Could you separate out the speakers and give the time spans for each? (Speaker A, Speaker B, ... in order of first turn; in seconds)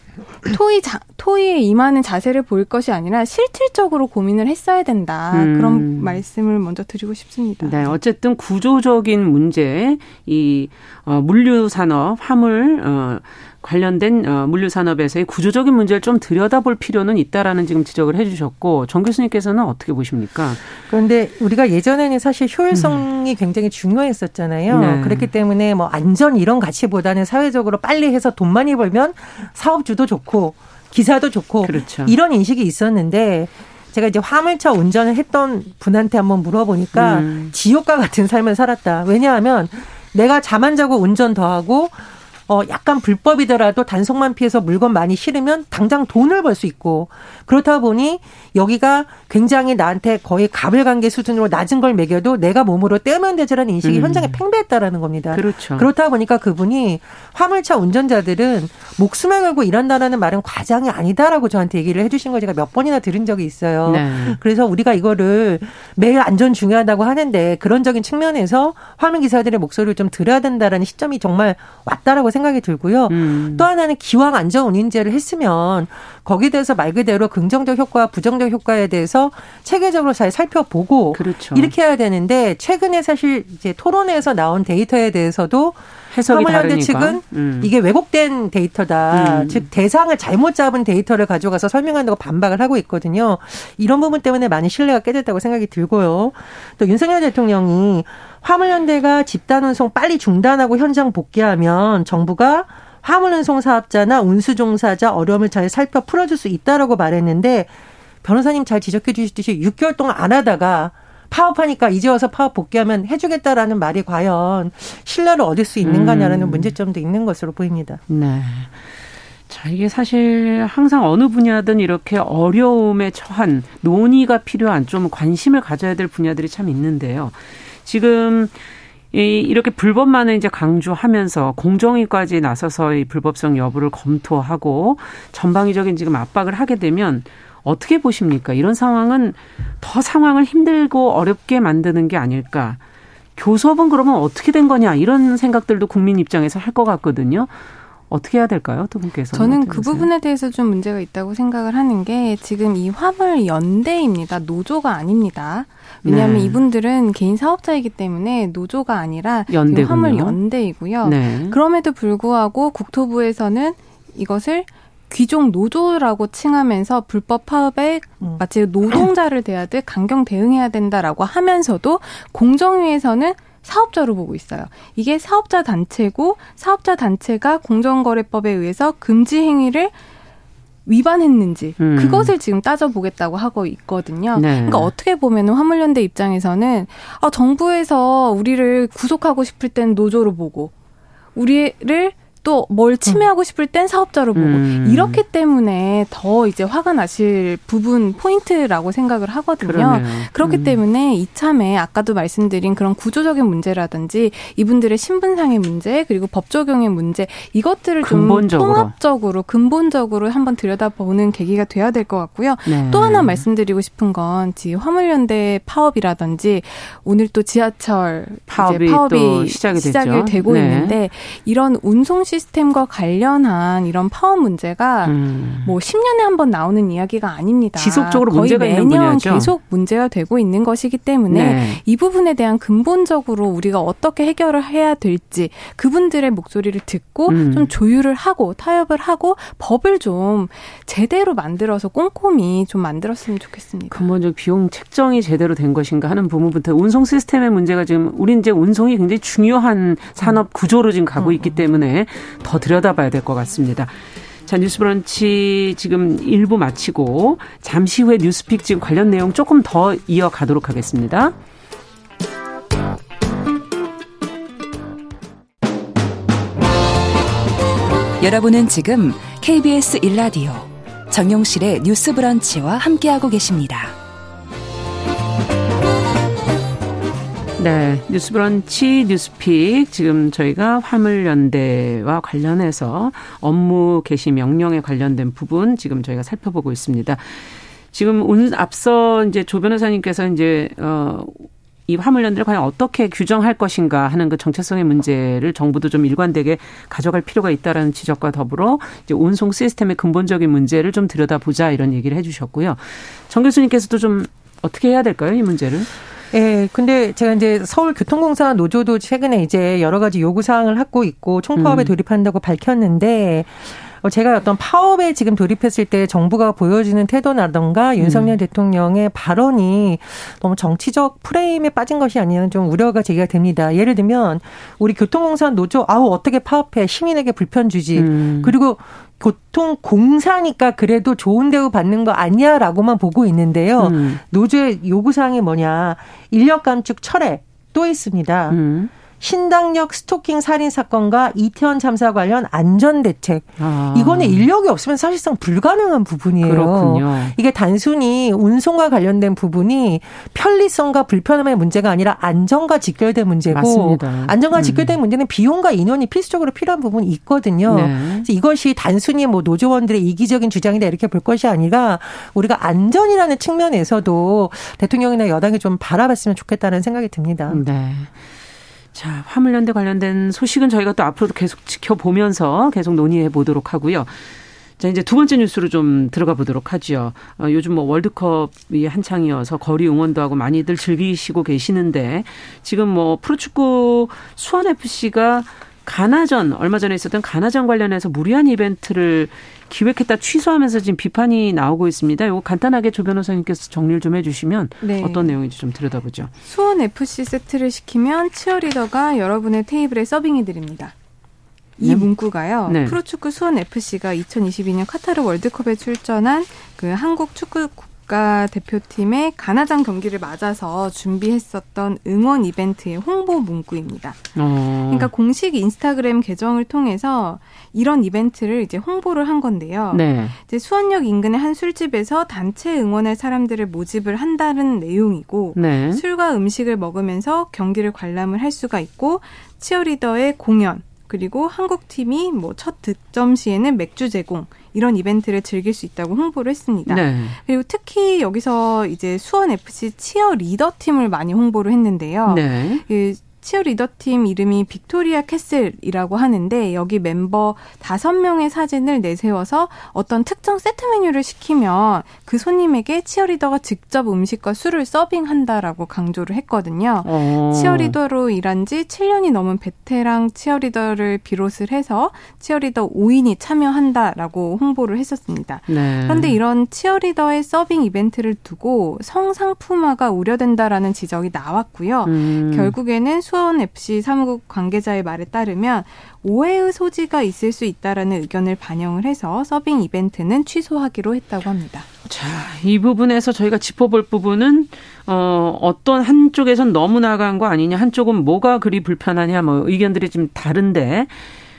Speaker A: 0.4-8.0, 149.3-179.9, 180.8-190.7, 191.3-244.1, 394.8-395.4, 396.4-400.9, 401.8-481.9
Speaker B: 5.3-6.2, 7.6-20.6, 22.7-23.0, 24.7-25.3, 31.6-32.1, 36.9-37.5, 53.8-54.4, 55.3-55.9, 63.9-64.4, 73.1-73.7, 81.1-81.7, 86.1-87.7, 89.1-89.7, 115.8-116.7, 118.1-118.9, 119.5-128.6, 129.1-142.8, 143.3-147.5, 148.1-150.1, 156.0-156.6, 159.5-160.4, 161.0-161.6, 181.8-182.3, 184.3-184.9, 194.3-195.2, 199.6-200.8, 208.0-208.9, 212.7-213.4, 218.5-221.0, 225.0-225.7, 227.8-229.5, 231.3-231.8, 237.3-237.7, 243.9-253.9, 254.4-261.3, 277.6-305.9, 311.6-311.9, 318.0-318.3, 327.9-328.5, 333.8-334.2, 338.5-338.9, 343.6-344.5, 346.4-347.3, 353.5-355.0, 357.7-358.3, 367.5-368.2, 368.9-396.3, 401.8-402.1, 402.6-403.0, 414.4-415.1, 419.9-420.3, 425.5-426.0, 436.9-437.4, 442.3-442.8, 457.0-457.9, 465.7-466.4, 472.0-472.7, 482.1-491.2
Speaker C: 20.9-107.7, 108.2-118.0, 251.2-251.5, 306.3-338.6, 339.2-367.6
Speaker D: 268.2-273.9